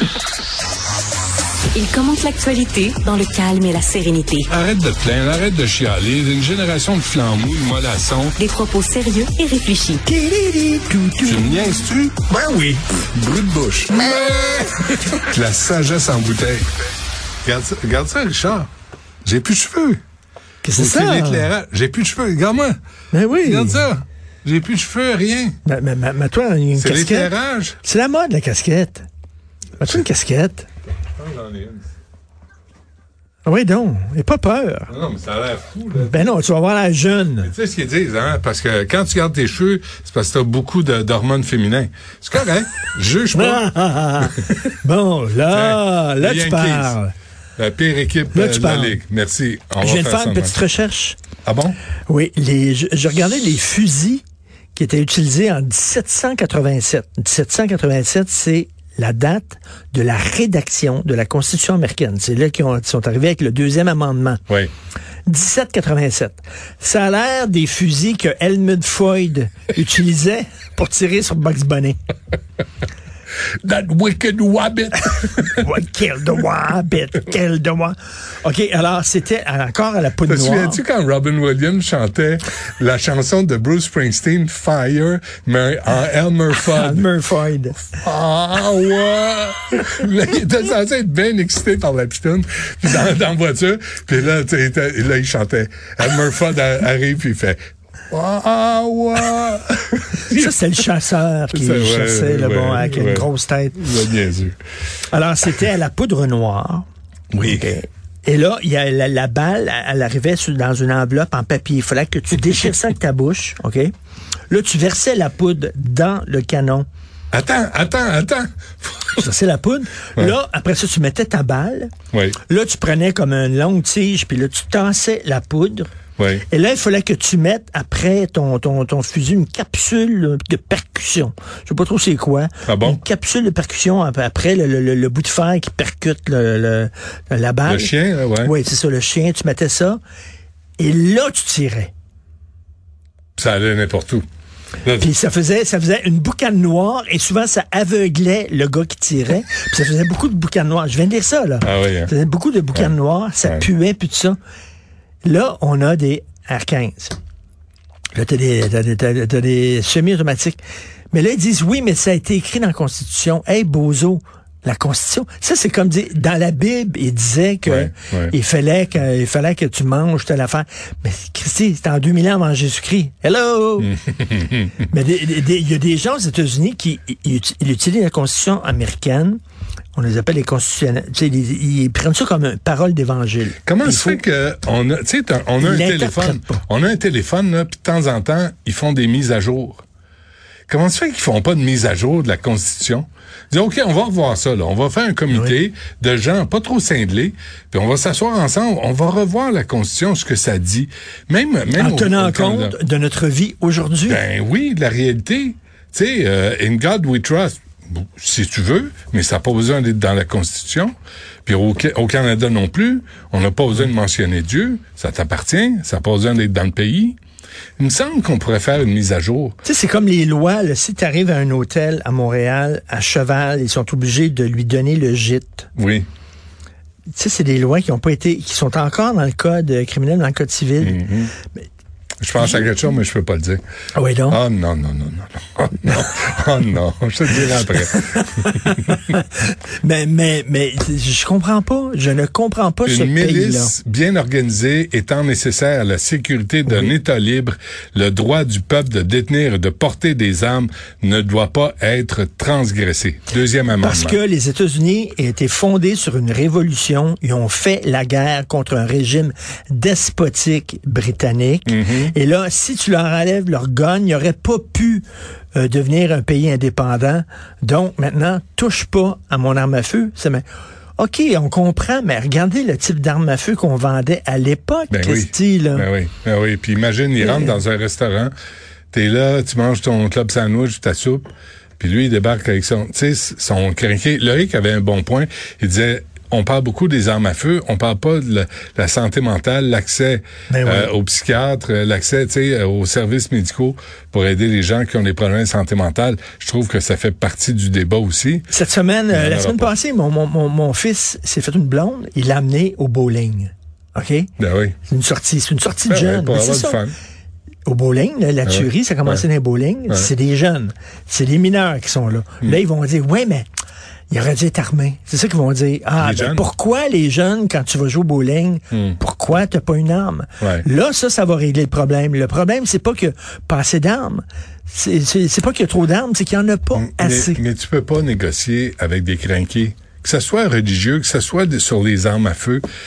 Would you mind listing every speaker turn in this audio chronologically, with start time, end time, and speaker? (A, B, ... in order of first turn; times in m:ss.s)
0:01.7-0:04.5 A
0:04.5-0:08.4 B
0:08.4-0:10.0 A
0:10.0-0:11.6 C
0:11.2-0:12.2 B
0:12.3-0:12.8 C
0:13.1-0:16.7 B
0:17.4-0:18.7 B
0:19.2-0:20.0 B
0:20.6-0:21.5 C
0:20.7-0:22.8 B
0:23.1-0:23.9 C
0:23.4-0:25.6 B
0:25.6-0:29.1 C
0:26.8-0:27.8 B
0:29.8-0:30.7 C
0:31.2-0:31.9 B
0:33.4-0:34.9 C
0:34.9-0:36.3 B
0:36.0-0:37.5 C
0:37.4-0:43.7 B
0:43.3-0:47.1 C
0:44.2-0:44.7 B
0:45.5-0:47.0 B
0:47.6-0:50.6 B
0:48.3-0:49.0 C
0:49.8-0:51.2 C
0:51.4-0:51.8 B
0:52.1-0:54.2 C
0:54.8-1:04.4 C
1:05.3-1:12.0 C
1:13.6-1:15.7 B
1:15.5-1:20.8 C
1:20.2-1:27.1 B
1:26.7-1:27.9 C
1:27.9-1:37.6 B
1:38.1-1:40.5 B
1:40.3-1:43.8 C
1:41.5-1:44.6 B
1:45.1-1:46.9 C
1:47.3-1:47.7 B
1:47.4-1:53.9 C
1:54.5-1:56.9 C
1:57.3-1:59.2 B
1:59.2-2:01.9 C
2:02.1-2:02.4 B
2:02.5-2:05.9 C
2:06.2-2:06.4 B
2:06.5-2:20.0 C
2:12.7-2:13.0 B
2:17.7-2:18.5 B
2:20.8-2:21.9 C
2:23.4-2:24.2 B
2:24.8-2:25.1 B
2:25.0-2:34.4 C
2:31.6-2:32.1 B
2:35.2-2:37.2 C
2:38.1-2:40.6 C
2:41.1-2:53.9 C
2:47.7-2:48.3 B
2:53.9-2:54.8 B
2:54.9-2:59.4 C
3:00.0-3:04.2 C
3:03.7-3:09.8 B
3:05.6-3:06.6 C
3:10.7-3:22.8 B
3:21.7-3:24.2 C
3:24.1-3:37.2 B
3:37.8-3:39.6 B
3:39.6-3:45.7 C
3:45.8-3:46.1 B
3:47.2-3:51.0 C
3:50.8-3:51.3 B
3:52.2-3:53.6 B
3:54.0-3:54.4 C
3:54.3-3:59.2 B
3:58.7-3:59.2 C
3:59.8-4:03.7 C
4:02.9-4:14.2 B
4:13.8-4:30.4 C
4:21.7-4:22.1 B
4:31.0-4:35.9 C
4:34.9-4:38.3 B
4:37.2-4:37.6 C
4:38.9-4:58.5 B
4:50.5-4:50.9 C
4:58.5-5:04.3 C
4:59.1-4:59.7 B
5:04.4-5:04.8 B
5:04.8-5:06.8 C
5:05.9-5:07.0 B
5:07.7-5:13.5 C
5:08.5-5:09.2 B
5:14.1-5:27.4 C
5:16.0-5:16.5 B
5:18.7-5:19.0 B
5:20.4-5:20.7 B
5:26.8-5:32.6 B